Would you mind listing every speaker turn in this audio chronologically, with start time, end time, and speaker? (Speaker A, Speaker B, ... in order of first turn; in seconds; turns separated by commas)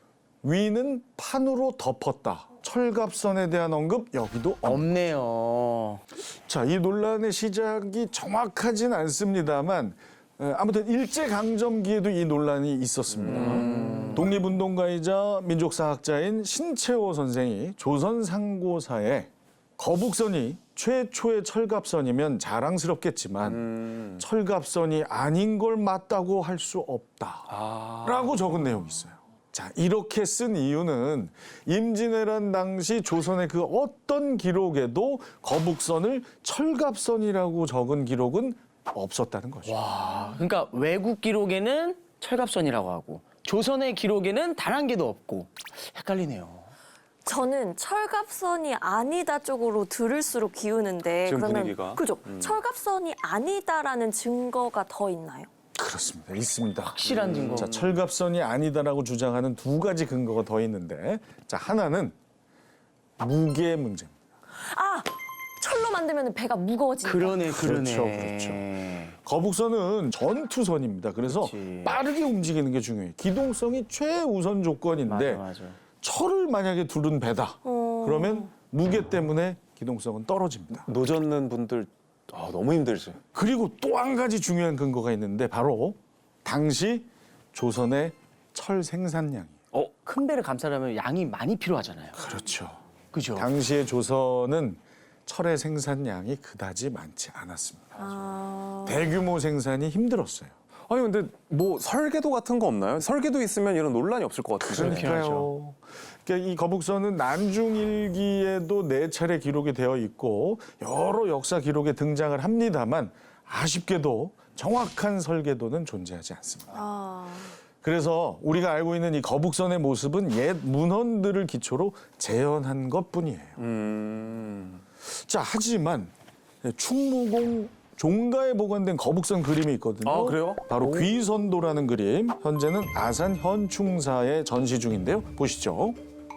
Speaker A: 0.4-4.9, Speaker B: 4.6-6.0, Speaker A: 6.3-39.9, Speaker C: 13.2-14.2, Speaker B: 13.3-14.4, Speaker C: 23.4-24.2, Speaker C: 27.5-28.4, Speaker B: 39.6-46.7, Speaker D: 47.3-55.5, Speaker C: 51.2-52.5, Speaker A: 55.8-62.2, Speaker B: 56.9-57.8, Speaker C: 57.0-58.0, Speaker A: 63.2-64.1, Speaker D: 64.6-67.4, Speaker B: 67.0-69.2, Speaker A: 67.5-68.7, Speaker A: 69.2-75.5, Speaker B: 71.3-72.0, Speaker B: 75.1-75.8, Speaker A: 76.0-80.9, Speaker D: 77.7-78.4, Speaker C: 80.9-83.2, Speaker A: 83.3-89.6, Speaker B: 89.7-92.2, Speaker A: 92.2-92.8, Speaker B: 93.1-93.5, Speaker A: 93.3-98.1, Speaker D: 98.0-99.0, Speaker A: 98.8-100.5, Speaker C: 100.9-105.1, Speaker A: 104.7-116.8, Speaker B: 104.7-105.5, Speaker D: 116.7-117.5, Speaker A: 117.8-123.6, Speaker C: 123.6-124.8, Speaker A: 125.0-126.1, Speaker A: 126.6-136.0, Speaker C: 130.1-131.1